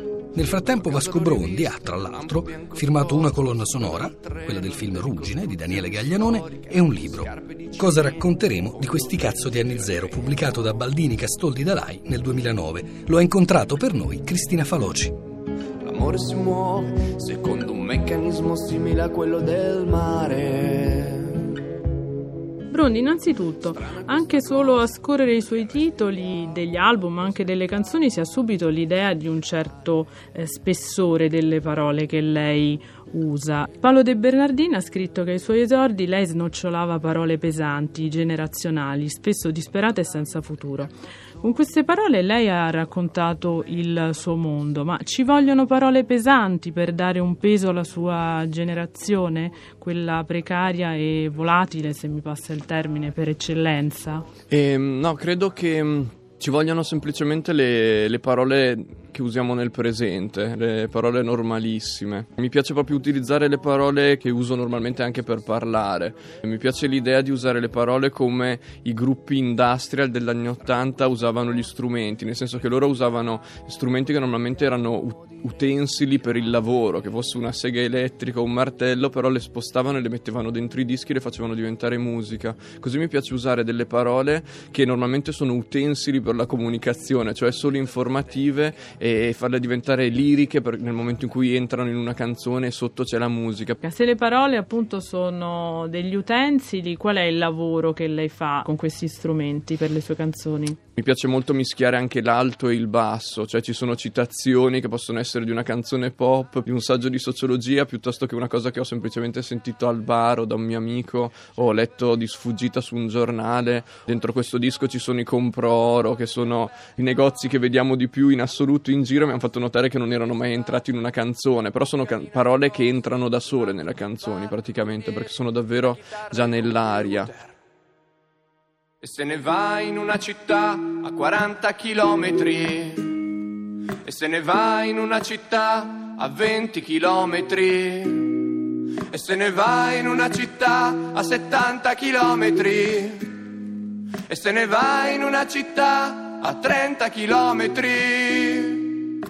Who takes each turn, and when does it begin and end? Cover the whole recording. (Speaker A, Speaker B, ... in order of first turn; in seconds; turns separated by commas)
Speaker A: 0.3-15.2, Speaker B: 0.6-10.3, Speaker C: 15.8-21.4, Speaker D: 22.7-54.3, Speaker C: 23.7-25.0, Speaker B: 54.5-93.8, Speaker D: 93.8-100.8, Speaker B: 101.0-127.4, Speaker C: 126.5-127.2, Speaker B: 129.0-129.5, Speaker C: 129.7-130.1, Speaker B: 130.2-131.2, Speaker C: 131.2-132.4, Speaker B: 131.8-133.0, Speaker B: 134.1-136.8, Speaker C: 134.2-135.6, Speaker C: 136.7-138.5, Speaker B: 139.1-139.5, Speaker C: 139.4-143.3, Speaker B: 141.1-141.5, Speaker C: 144.4-147.6, Speaker B: 145.8-146.3, Speaker B: 147.6-148.1, Speaker C: 148.2-149.0